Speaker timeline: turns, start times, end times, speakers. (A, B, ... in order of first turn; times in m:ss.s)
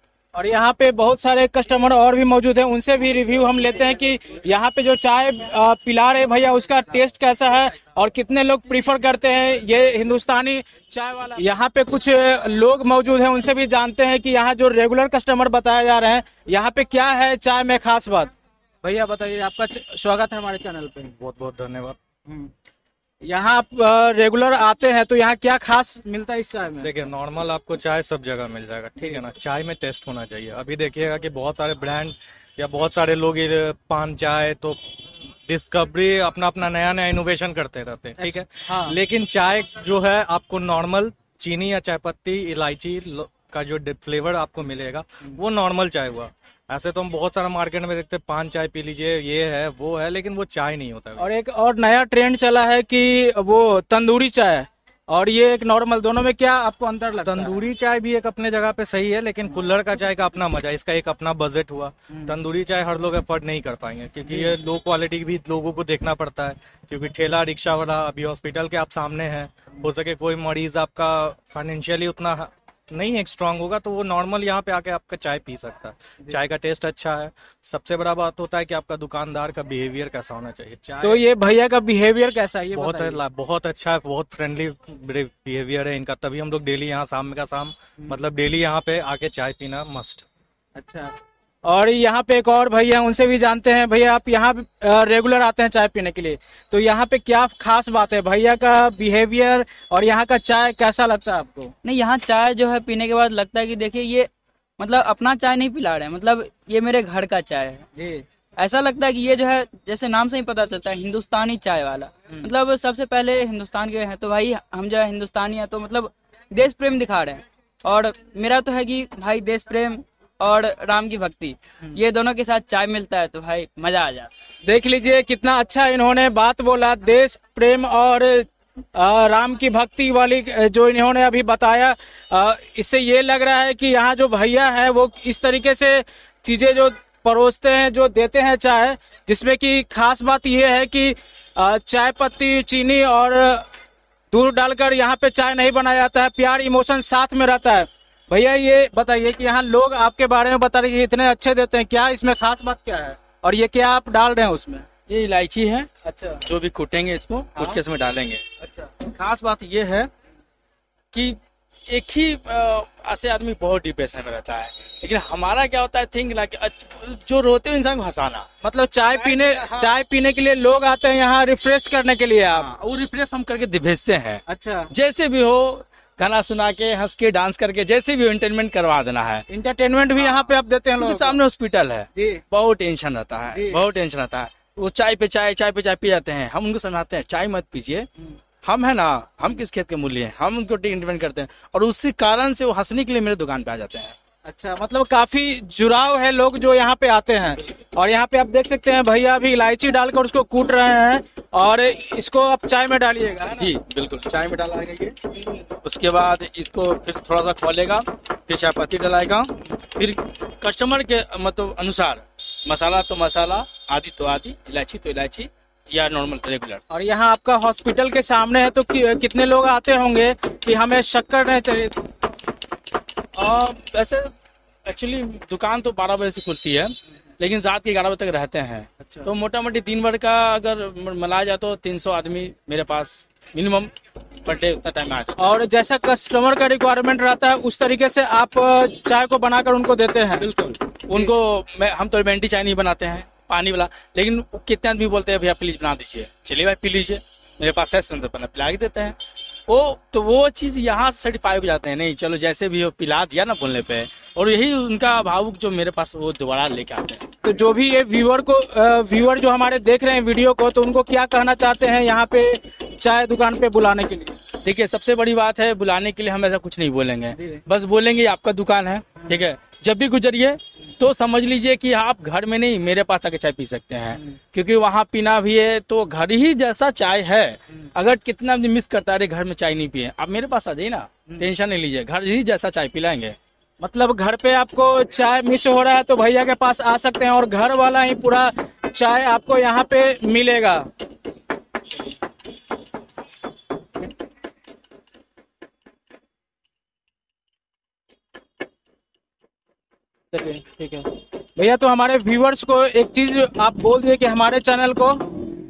0:00.3-0:18.3 A
0:18.8-0:21.1 A
0:21.2-0:22.0 B
0:23.2-0:26.9 A
0:26.8-0:34.8 B
0:35.4-0:51.3 B
0:38.2-0:39.0 A
0:51.2-0:57.6 A
0:57.2-1:21.2 B
1:04.2-1:04.5 A
1:21.0-1:23.2 A
1:22.7-1:30.2 B
1:30.7-1:41.7 A
1:41.8-1:47.8 C
1:47.9-1:48.2 A
1:48.6-2:04.3 C
2:04.6-2:23.7 A
2:24.3-2:34.8 A
2:35.1-2:35.9 D
2:36.0-2:36.4 A
2:36.4-2:38.4 D
2:38.6-2:38.9 A
2:39.0-2:40.1 D
2:41.1-2:48.5 D
2:48.6-2:52.7 A
2:49.1-2:50.0 D
2:52.5-2:59.4 D
2:54.5-2:54.9 A
2:59.5-3:01.4 A
3:00.2-3:08.1 D
3:02.2-3:02.4 A
3:03.5-3:03.8 A
3:08.6-3:14.1 D
3:14.4-3:23.7 A
3:23.5-3:36.8 D
3:36.9-3:42.0 A
3:43.3-3:44.3 D
3:44.8-3:53.9 D
3:49.0-3:49.3 A
3:54.4-3:55.4 D
3:55.4-4:00.5 A
4:00.4-4:17.2 D
4:17.4-4:24.4 A
4:24.6-4:43.4 D
4:27.3-4:27.6 A
4:43.8-4:50.9 A
5:00.3-5:05.2 A